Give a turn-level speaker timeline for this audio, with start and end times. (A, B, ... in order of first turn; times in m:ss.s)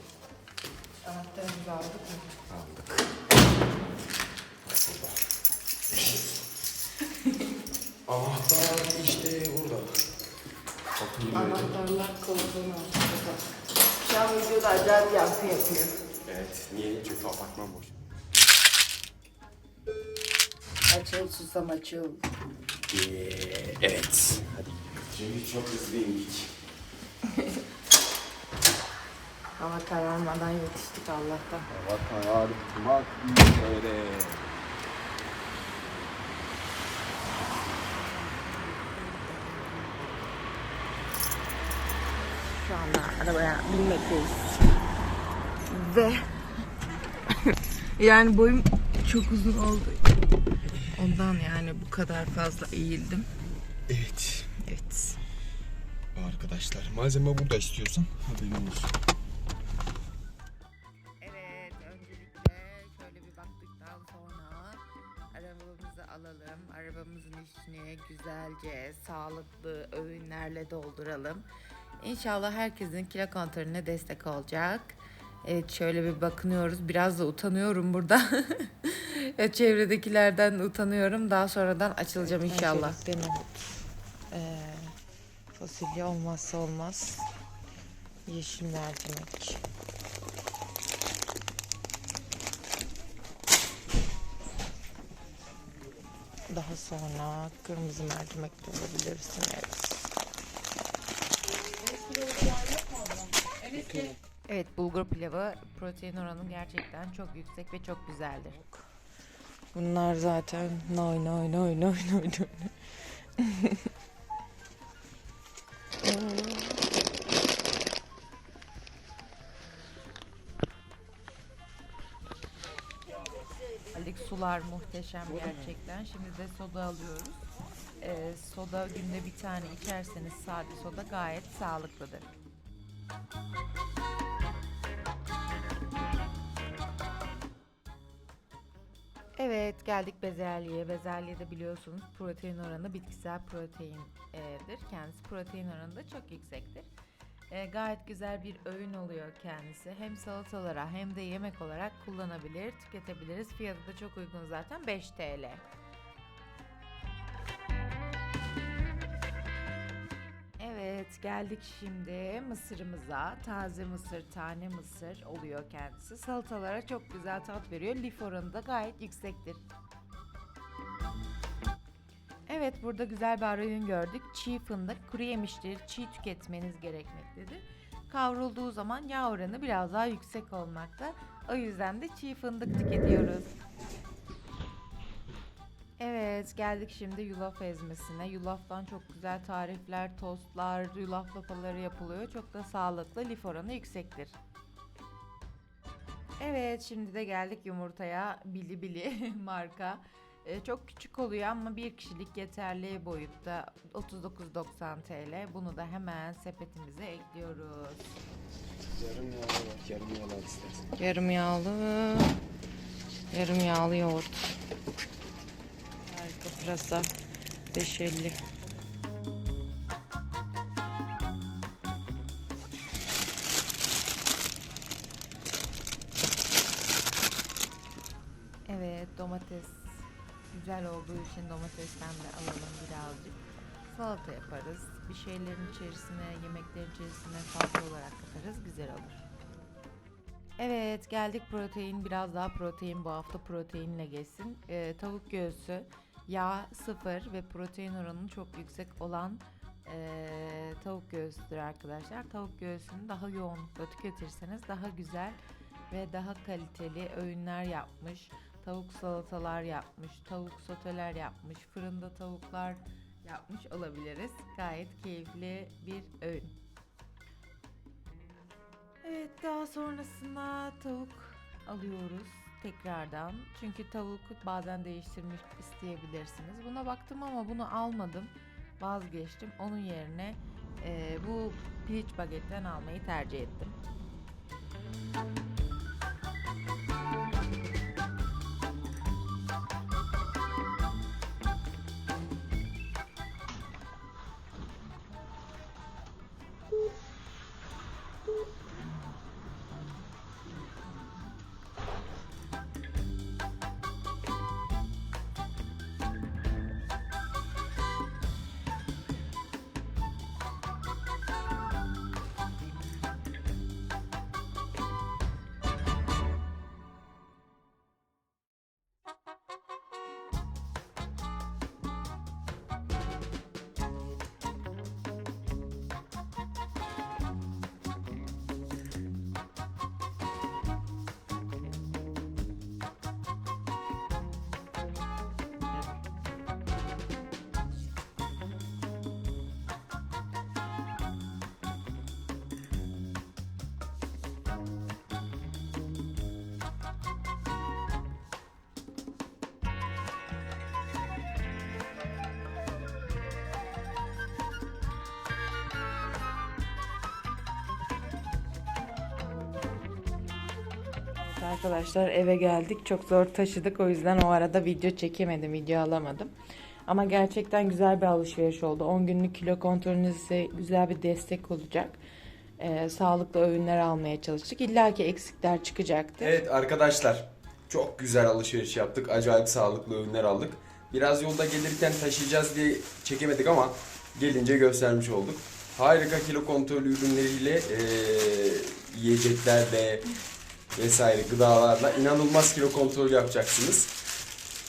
0:01.0-0:02.2 A
0:02.5-0:03.0 B
0:04.6-0:05.2 B
0:05.9-0:06.3 B
0:08.1-0:10.0 B
0:11.0-0:11.7 B
0:11.3-0:13.4 A
0:14.0-0:16.0 A
0:16.2-0:18.0 B
0:20.9-0:22.2 A
0:22.9-0:26.5 B
0:29.6-0:31.7 A
0:31.7-0:34.4 B
0:37.9-0:40.3 A
0:42.4-0:44.7 A
0:45.7-0:46.4 A
0:47.4-0:50.1 A
0:50.8-0:53.3 A
0:53.9-0:54.5 B
0:54.6-0:55.2 A
0:56.1-0:58.9 B
1:01.2-1:04.8 A
1:05.3-1:11.4 A
1:12.0-1:23.6 A
1:24.3-1:24.9 A
1:25.5-1:27.3 A
1:28.3-1:29.6 A
1:36.5-1:40.1 A
1:42.0-1:42.4 A
1:44.5-1:48.9 A
1:49.7-1:52.7 A
1:53.4-1:53.8 A
1:56.0-1:56.8 A
2:03.9-2:07.4 A
2:08.0-2:12.3 A
2:19.4-2:26.9 A
2:27.5-2:35.6 A
2:40.6-2:49.6 A
2:52.5-3:03.5 A
3:06.0-3:14.4 A
3:16.4-3:28.1 A
3:28.8-3:30.9 B
3:30.9-3:32.3 A
3:33.3-3:34.6 A
3:36.1-3:37.1 A
3:37.7-3:38.4 A
3:48.7-3:59.2 A
4:00.6-4:15.4 A
4:15.9-4:26.5 A
4:29.0-4:43.8 A
6:01.2-6:06.3 A
6:06.9-6:12.0 A
6:12.6-6:16.3 A
6:16.2-6:30.0 B
6:30.8-6:33.9 B